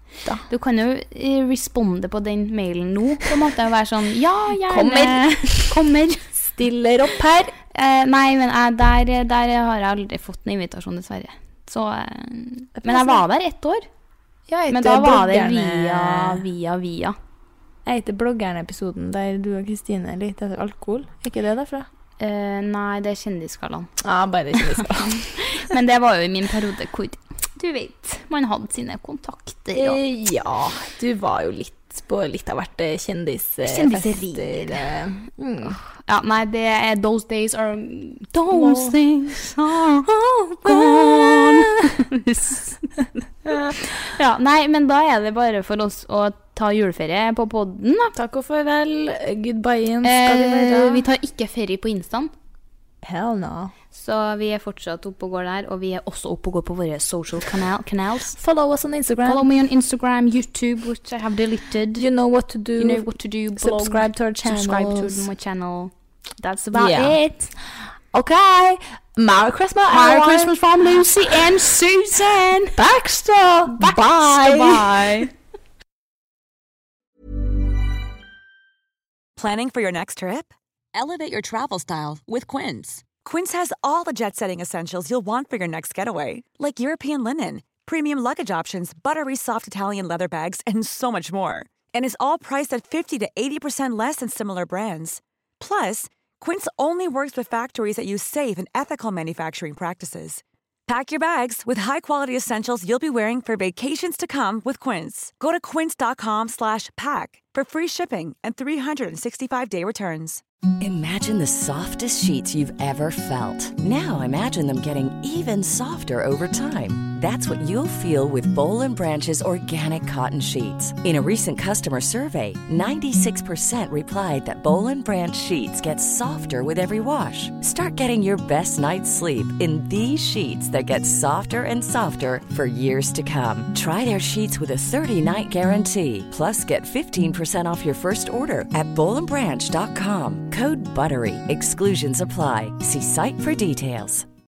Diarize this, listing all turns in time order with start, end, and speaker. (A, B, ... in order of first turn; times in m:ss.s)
0:00.5-0:06.4 A
0:04.6-0:05.8 B
0:06.4-0:07.6 B
0:07.7-0:13.9 A
0:12.8-0:13.2 B
0:14.5-0:16.4 B
0:14.7-0:17.2 A
0:17.8-0:21.9 B
0:22.2-0:23.9 A
0:24.0-0:25.7 B
0:24.5-0:30.0 A
0:29.7-0:35.8 B
0:33.6-0:34.9 A
0:35.9-0:40.1 A
0:38.5-0:39.0 B
0:40.1-0:42.0 B
0:40.6-0:43.0 A
0:43.5-0:43.8 B
0:43.7-0:48.2 A
0:48.2-0:51.1 B
0:50.0-0:52.3 A
0:53.0-0:53.7 B
0:53.9-0:58.4 A
0:58.3-0:59.5 B
0:59.2-1:02.1 A
1:02.0-1:05.3 B
1:02.8-1:07.5 A
1:06.7-1:07.2 B
1:08.1-1:11.5 B
1:09.9-1:12.8 A
1:12.8-1:15.3 B
1:13.7-1:15.3 A
1:19.4-1:50.4 C
1:50.8-2:24.3 D